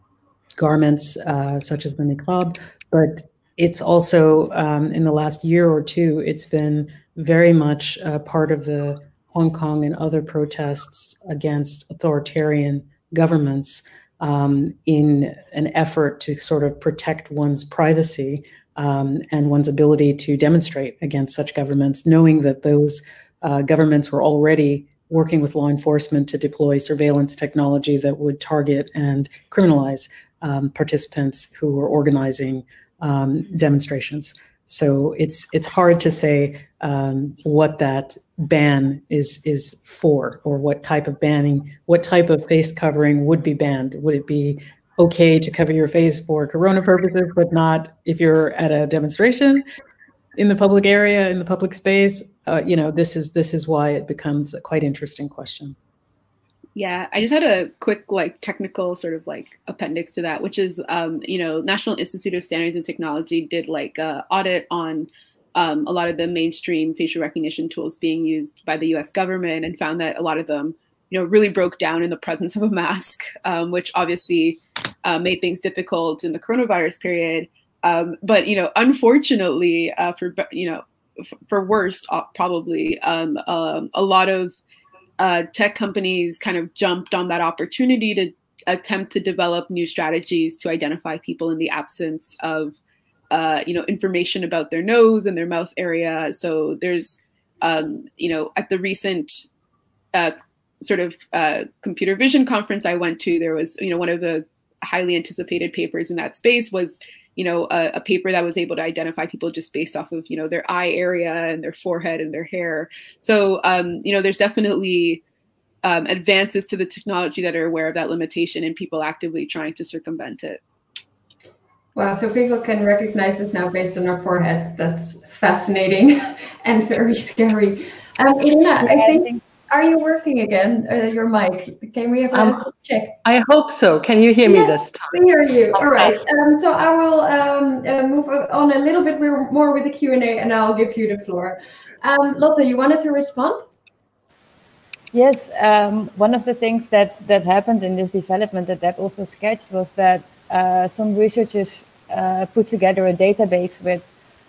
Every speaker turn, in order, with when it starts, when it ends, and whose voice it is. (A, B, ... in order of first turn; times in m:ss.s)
0:00.6-0:49.6 A
0:50.4-0:55.8 A
0:56.8-1:20.8 B
1:21.5-1:24.6 B
1:25.2-1:32.8 B
1:33.3-1:39.4 B
1:40.1-1:55.2 B
1:55.8-2:00.6 B
2:02.0-2:13.2 C
2:08.8-2:09.4 D
2:12.3-2:12.7 E
2:13.2-2:15.2 E
2:14.4-2:23.6 C
2:15.7-2:16.2 E
2:25.1-2:34.0 D